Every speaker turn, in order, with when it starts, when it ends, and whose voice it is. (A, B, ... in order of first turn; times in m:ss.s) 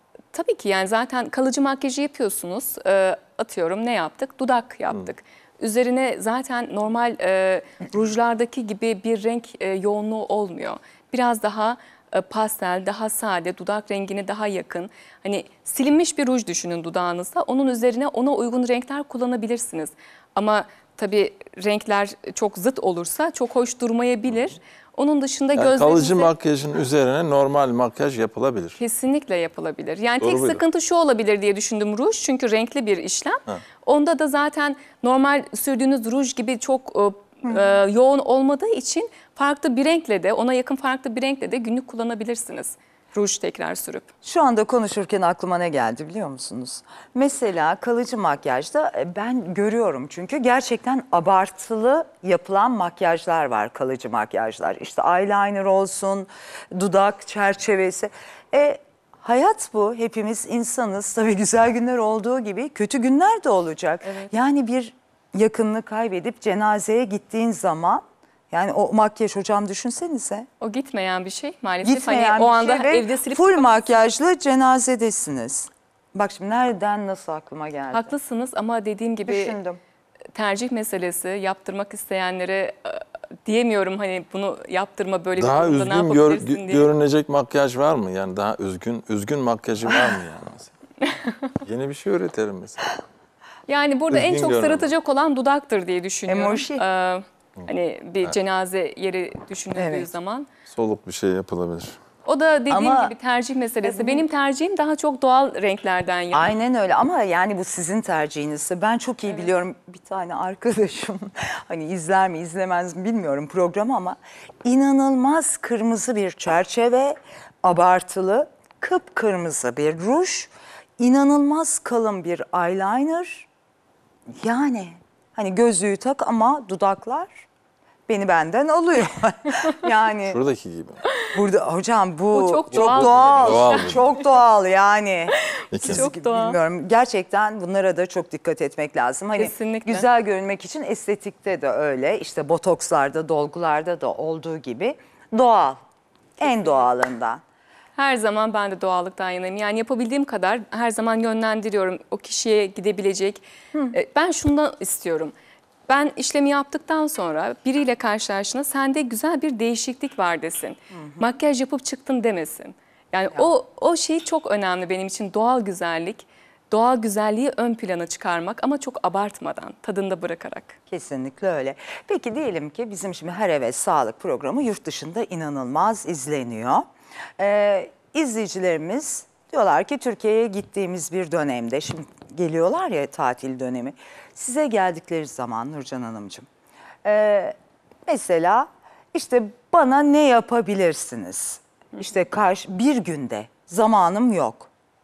0:00.3-0:26.3 A
0:25.6-0:28.8 B
0:28.8-0:44.1 A
0:30.2-0:30.6 B
0:37.4-0:37.8 C
0:44.2-1:10.5 C
1:04.0-1:04.3 A
1:10.6-1:14.0 A
1:11.8-1:18.1 C
1:17.9-1:19.6 A
1:19.3-1:19.8 C
1:20.4-1:26.9 A
1:25.4-1:30.7 B
1:31.0-1:31.5 A
1:31.6-1:33.0 B
1:33.7-1:40.5 A
1:34.1-1:34.9 B
1:36.3-1:36.8 C
1:39.8-1:40.1 C
1:40.7-1:42.0 B
1:42.2-1:46.5 A
1:42.7-1:43.1 C
1:43.8-1:44.3 C
1:46.3-2:03.5 C
2:04.3-2:07.5 C
2:08.1-2:10.4 C
2:10.2-2:11.0 B
2:11.3-2:25.8 C
2:12.3-2:14.0 A
2:12.7-2:14.0 B
2:15.7-2:16.1 B
2:15.8-2:16.6 A
2:19.4-2:20.1 A
2:26.4-2:26.8 A
2:26.4-2:27.4 C
2:28.0-2:35.3 A
2:35.9-2:50.8 A
2:40.9-2:41.2 C
2:50.9-2:56.8 C
2:57.4-3:06.5 C
3:07.0-3:14.7 C